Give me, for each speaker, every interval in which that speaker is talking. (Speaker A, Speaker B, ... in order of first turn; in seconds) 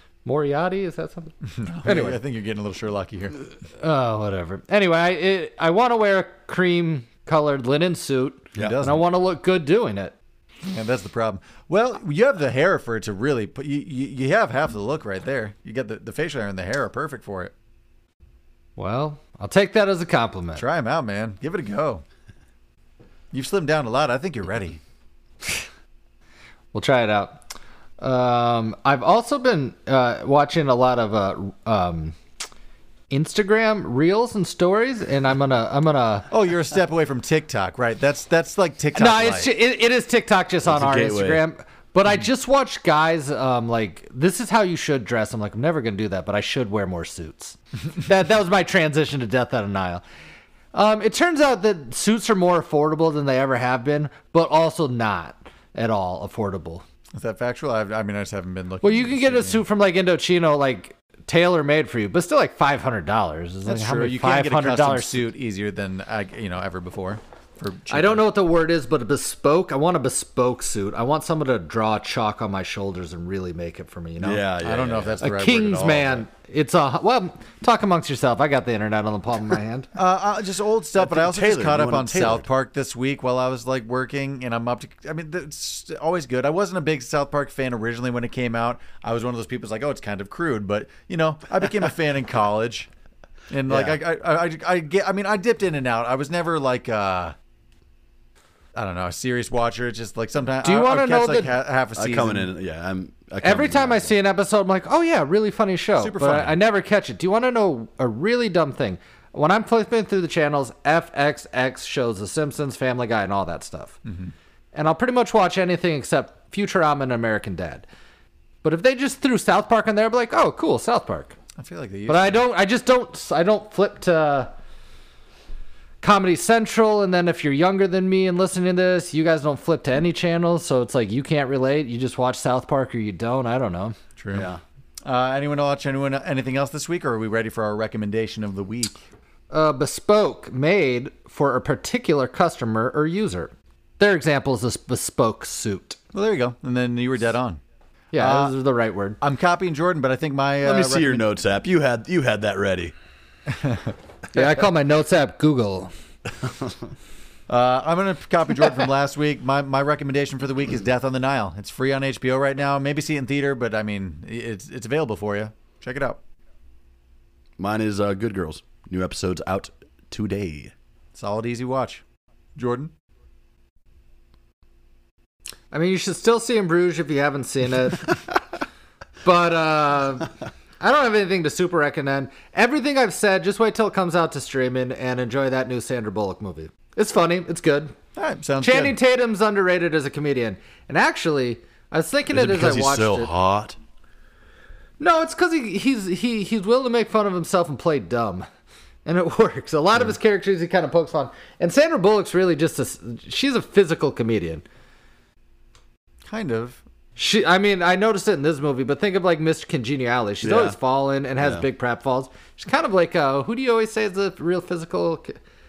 Speaker A: 0.2-1.3, 1.9-2.2, 3.8-10.2, 18.8-20.6, 26.7-27.4, 28.0-32.2, 33.1-36.3, 39.0-50.0, 50.7-56.8, 58.8-65.3, 67.9-74.5, 75.2-79.9, 100.6-101.5, 103.4-114.0, 114.7-117.9, 118.6-121.4, 122.1-124.5, 126.0-134.0, 139.5-146.0, 148.1-149.2, 154.3-155.9, 175.7-178.2, 179.2-187.9, 188.6-193.3, 195.0-198.5, 199.1-204.6, 207.2-215.4
Speaker B: 1.6-3.4, 8.6-9.0, 10.7-17.5, 20.6-22.0, 23.3-24.8, 36.3-39.5, 57.1-59.6, 63.7-68.2, 74.6-76.3, 80.0-92.9, 93.5-97.3, 98.8-102.5, 106.0-106.6, 114.1-114.3, 121.6-122.5, 134.2-134.5, 135.1-139.0, 146.1-147.6, 148.2-148.5, 149.2-151.2, 153.5-153.9, 157.5-166.2, 171.1-172.0, 172.6-172.9, 188.2-189.0, 206.3-206.8
Speaker C: 40.6-41.5, 74.2-75.2, 81.0-82.5, 93.7-94.0, 102.0-104.1, 134.3-134.6, 150.6-152.9, 167.6-170.7, 192.3-193.8, 210.4-210.8, 211.4-211.7